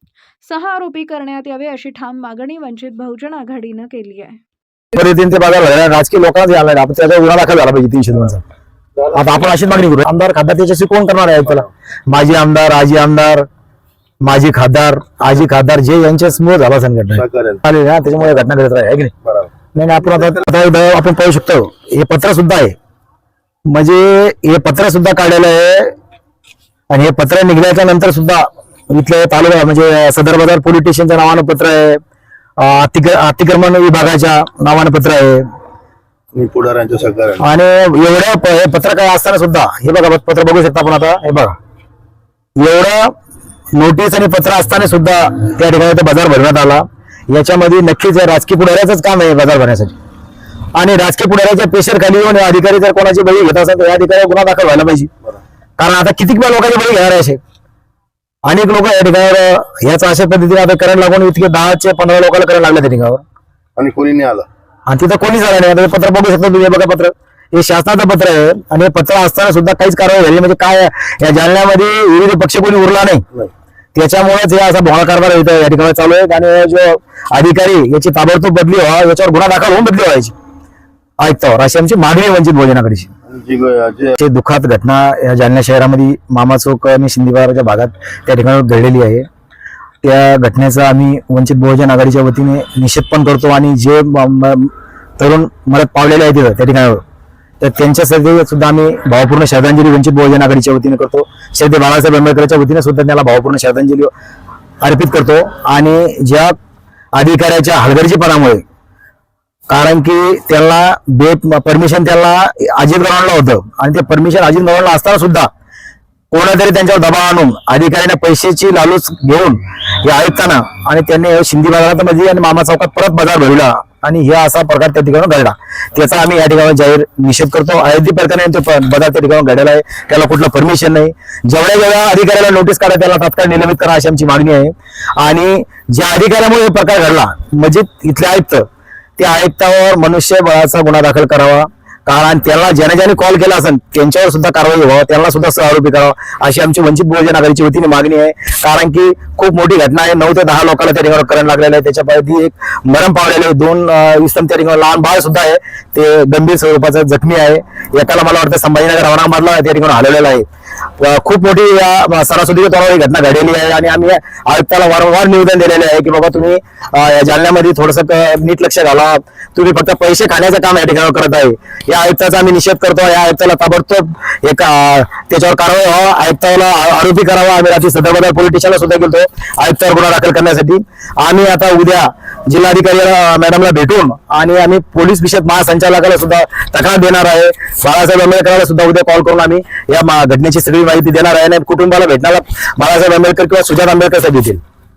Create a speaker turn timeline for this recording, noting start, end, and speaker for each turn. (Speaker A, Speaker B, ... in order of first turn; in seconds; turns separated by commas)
Speaker A: 0.4-4.4, Speaker B: 4.9-8.4, Speaker B: 9.1-13.5, Speaker B: 14.2-19.1, Speaker C: 17.2-17.6, Speaker C: 19.2-19.5, Speaker B: 19.7-22.8, Speaker B: 23.7-25.9, Speaker B: 26.9-32.0, Speaker B: 32.6-35.5, Speaker C: 36.3-37.4, Speaker B: 37.4-41.5, Speaker B: 42.6-43.1, Speaker B: 43.7-49.9, Speaker B: 50.7-55.1, Speaker B: 55.8-57.4, Speaker B: 58.4-63.2, Speaker C: 63.8-64.5, Speaker B: 64.9-73.2, Speaker B: 73.9-80.3, Speaker B: 81.2-83.1, Speaker C: 83.3-84.2, Speaker B: 84.2-89.3, Speaker B: 90.0-97.0, Speaker B: 97.6-104.1, Speaker B: 104.8-106.5, Speaker B: 107.1-108.6, Speaker B: 109.7-115.5, Speaker B: 116.3-138.7, Speaker B: 139.2-160.4, Speaker B: 161.0-194.6